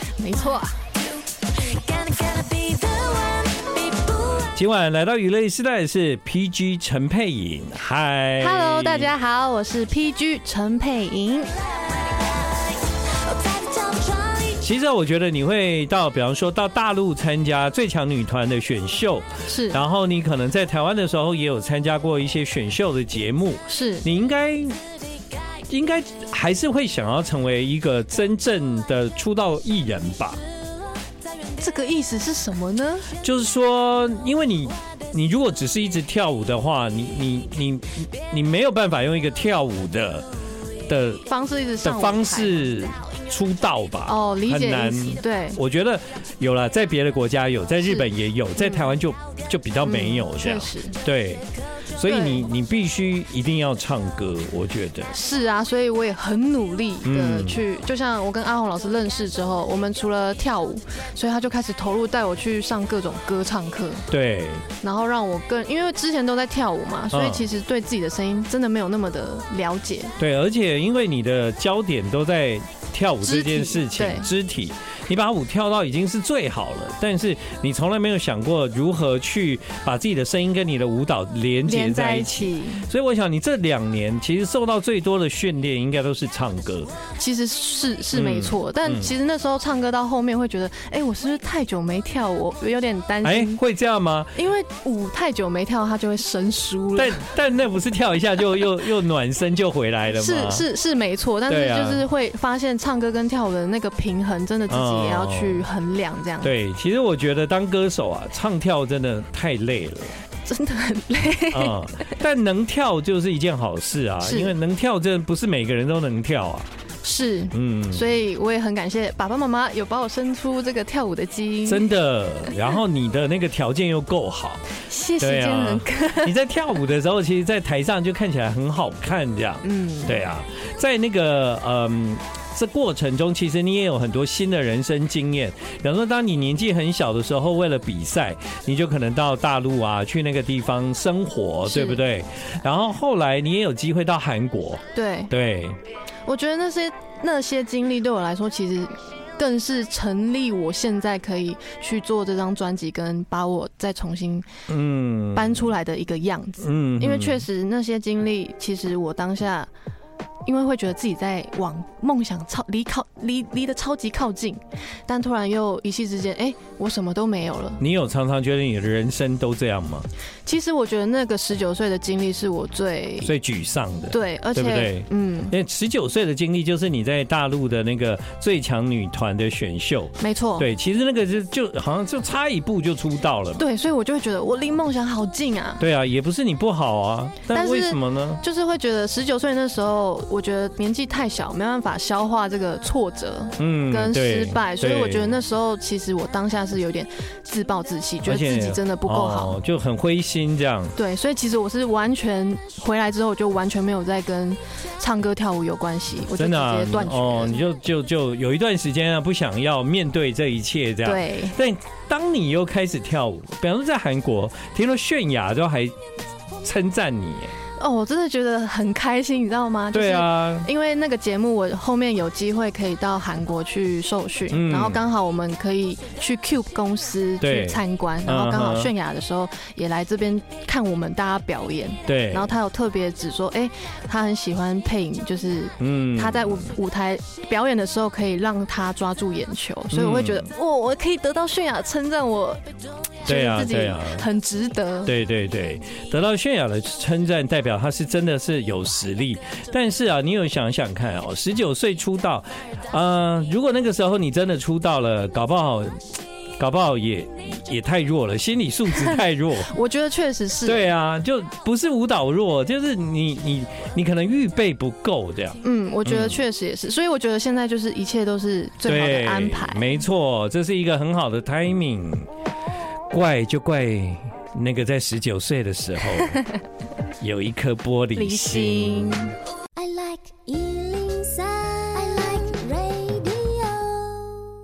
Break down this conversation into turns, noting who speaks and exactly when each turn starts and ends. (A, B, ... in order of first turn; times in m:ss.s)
0:00.2-0:00.8 A
0:01.7-0:04.1 A
0:04.4-0:09.1 B
0:08.4-0:11.5 A
0:13.3-0:14.4 A
0:14.5-0:24.8 B
0:19.5-0:19.8 A
0:23.7-0:24.1 A
0:25.7-0:30.4 B
0:31.6-0:33.1 A
0:33.2-0:40.3 B
0:40.9-0:41.3 B
0:41.3-0:42.7 A
0:41.8-0:51.4 B
0:44.1-0:45.6 A
0:47.8-0:48.9 A
0:49.8-0:51.0 A
0:52.0-0:55.1 B
0:52.1-0:52.5 A
0:55.1-1:04.1 A
0:57.0-0:57.6 B
1:04.1-1:04.7 B
1:04.8-1:10.2 A
1:07.1-1:07.5 B
1:10.2-1:26.9 B
1:13.2-1:14.3 A
1:21.7-1:22.9 A
1:27.2-1:33.6 A
1:28.1-1:29.1 B
1:33.2-1:34.4 B
1:34.4-1:37.2 A
1:37.0-1:40.6 B
1:40.1-1:46.5 A
1:41.5-1:42.0 B
1:44.7-1:45.6 B
1:46.4-1:50.2 B
1:50.5-1:51.8 A
1:51.5-1:56.7 B
1:54.2-1:54.6 A
1:57.0-2:01.9 A
1:57.5-1:58.0 B
2:01.7-2:04.7 B
2:04.9-2:06.4 A
2:05.2-2:25.8 B
2:09.6-2:10.2 A
2:21.7-2:22.0 A
2:25.0-2:25.3 A
2:26.3-2:34.5 A
2:34.7-2:35.6 B
2:35.3-2:39.7 A
2:36.6-2:37.4 B
2:40.5-2:47.8 A
2:47.8-2:50.1 B
2:50.5-2:53.3 A
2:53.2-3:03.6 B
2:54.1-2:55.5 A
3:00.2-3:00.7 A
3:03.6-3:05.8 A
3:05.8-3:08.4 B
3:07.5-3:19.6 A
3:13.6-3:15.4 B
3:18.2-3:21.0 B
3:21.0-3:27.6 A
3:26.3-3:36.0 B
3:31.0-3:31.6 A
3:36.6-3:37.5 B
3:37.8-4:02.6 A
3:39.9-3:40.7 B
3:44.5-3:45.0 B
3:47.4-3:48.9 B
3:52.1-3:52.5 B
3:55.8-3:56.7 B
3:59.9-4:00.5 B
4:03.2-4:05.1 A
4:03.3-4:04.2 B
4:05.0-4:16.1 B
4:16.6-4:19.7 B
4:19.7-4:20.9 A
4:20.6-4:26.4 B
4:25.6-4:30.0 A
4:28.8-4:32.3 B
4:33.1-4:36.4 B
4:37.2-4:39.3 B
4:38.2-4:39.3 A
4:39.8-4:44.4 C